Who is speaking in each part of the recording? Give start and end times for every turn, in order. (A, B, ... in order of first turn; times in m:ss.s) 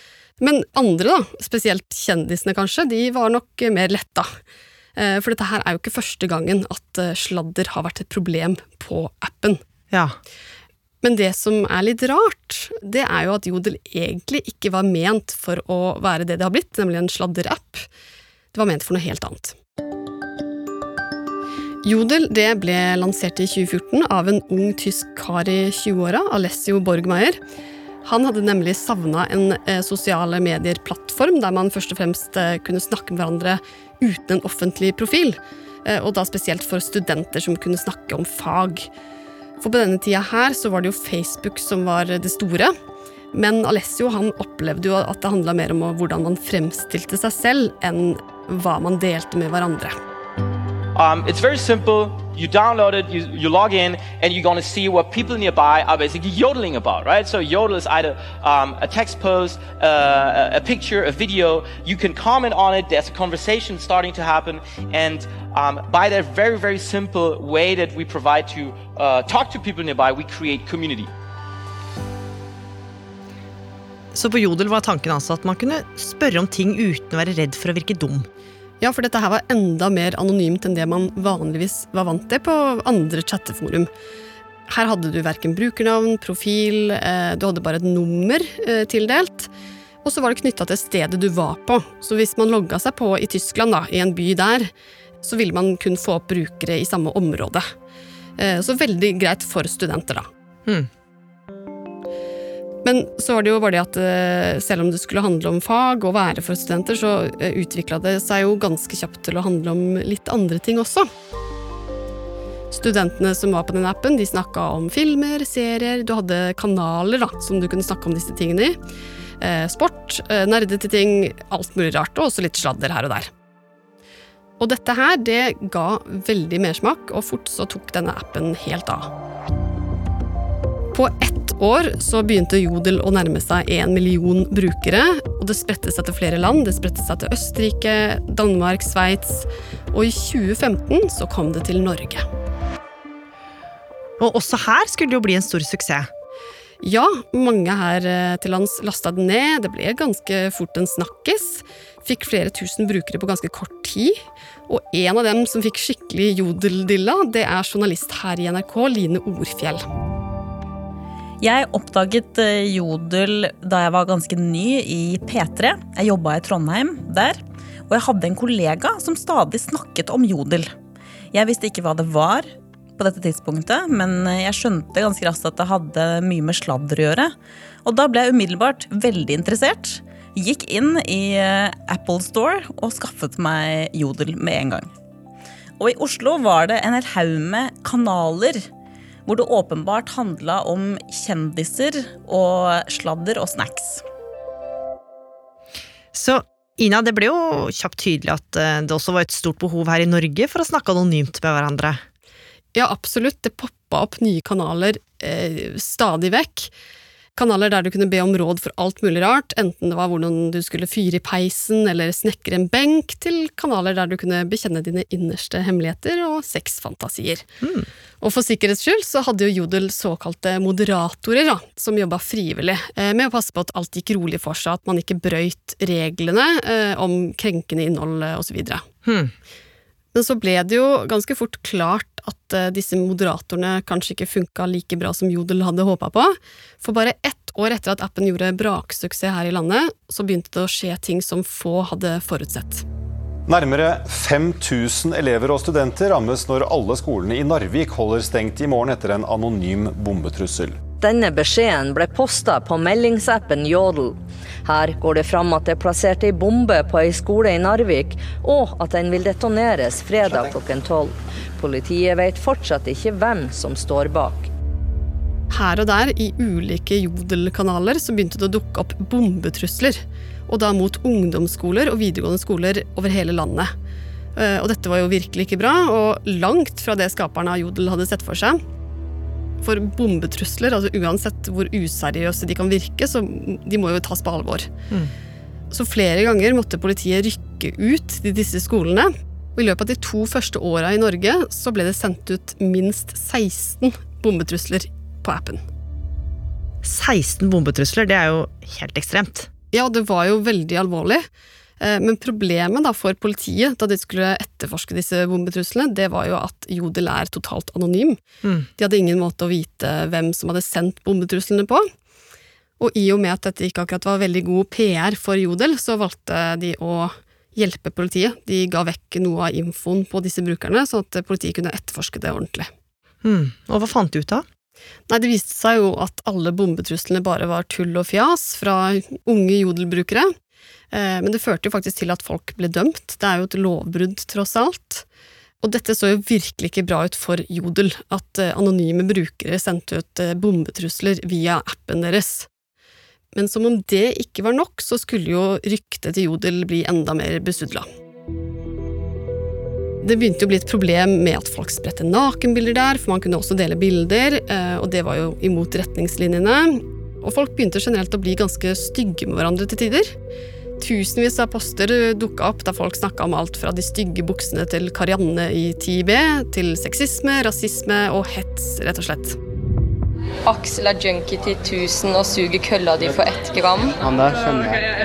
0:00.4-0:04.3 A
0:05.0-0:09.6 A
0:09.9-0:10.2 B
0:11.0-0:17.9 A
0:18.5-0:19.6 A
0:21.8-0:27.4 A
0:28.0-0:38.9 A
0:39.6-0:42.7 A
0:43.3-0:49.9 A
0:50.9-1:11.1 C
1:14.1-1:18.3 B
1:18.8-1:23.9 A
1:24.7-1:29.5 A
1:30.0-1:34.7 A
1:35.2-1:37.6 A
1:38.4-1:40.3 A
1:42.8-1:51.1 A
1:52.7-1:58.8 A
1:59.4-2:03.3 A
2:04.6-2:09.1 A
2:10.9-2:22.2 A
2:24.2-2:26.1 B
2:26.8-2:39.8 A
2:41.4-2:50.7 D
2:51.3-2:57.3 D
2:57.8-3:04.9 D
3:05.8-3:08.6 D
3:09.2-3:14.0 D
3:16.1-3:22.0 B
3:22.7-3:26.7 A
3:27.4-3:37.4 A
3:38.2-3:48.8 A
3:49.0-3:49.3 B
3:50.1-4:02.8 A
4:03.5-4:10.8 E
4:11.0-4:24.5 F
4:25.5-4:33.7 A
4:34.4-4:38.6 A
4:39.6-4:44.7 A
4:45.7-4:55.6 A
4:56.8-4:59.5 B
4:59.7-5:01.2 A
5:01.8-5:08.2 A
5:08.8-5:11.8 A
5:12.8-5:22.7 A
5:23.2-5:24.4 B
5:25.1-5:30.3 A
5:30.9-5:35.0 A
5:35.6-5:42.5 A
5:43.3-5:47.8 A
5:50.0-6:00.1 A
6:00.8-6:09.4 A
6:10.5-6:14.7 G